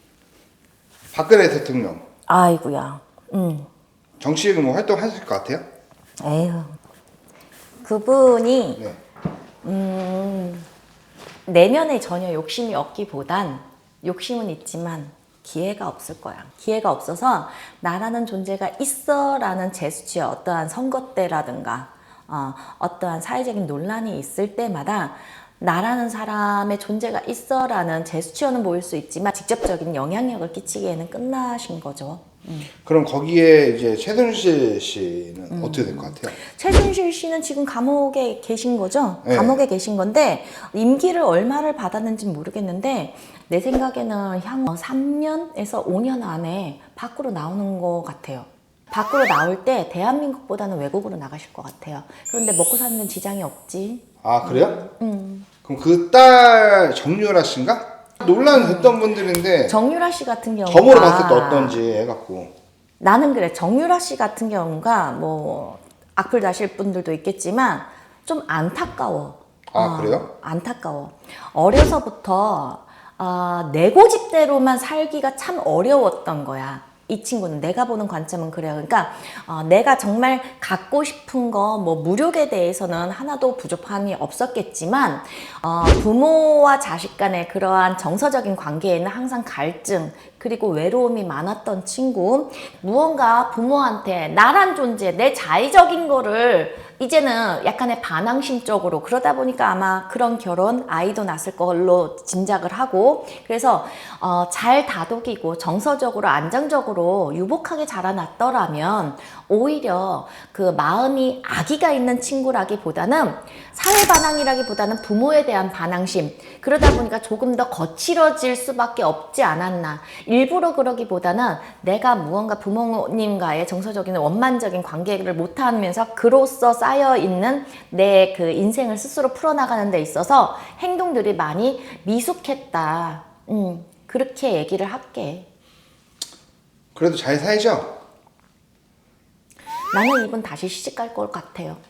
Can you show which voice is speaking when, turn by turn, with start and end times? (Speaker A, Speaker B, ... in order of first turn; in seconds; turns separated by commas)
Speaker A: 1.1-2.0, Speaker B: 2.3-3.7, Speaker A: 4.2-5.7, Speaker B: 6.2-6.8, Speaker B: 7.8-8.8, Speaker B: 9.6-10.7, Speaker B: 11.5-32.7, Speaker A: 32.9-36.4, Speaker B: 35.5-55.5, Speaker A: 39.2-39.6, Speaker A: 54.2-54.8, Speaker A: 55.6-59.8, Speaker B: 58.5-59.0, Speaker B: 59.6-61.8, Speaker A: 60.7-62.5, Speaker B: 63.0-135.5, Speaker A: 69.7-70.3, Speaker A: 136.9-137.9, Speaker B: 139.9-141.8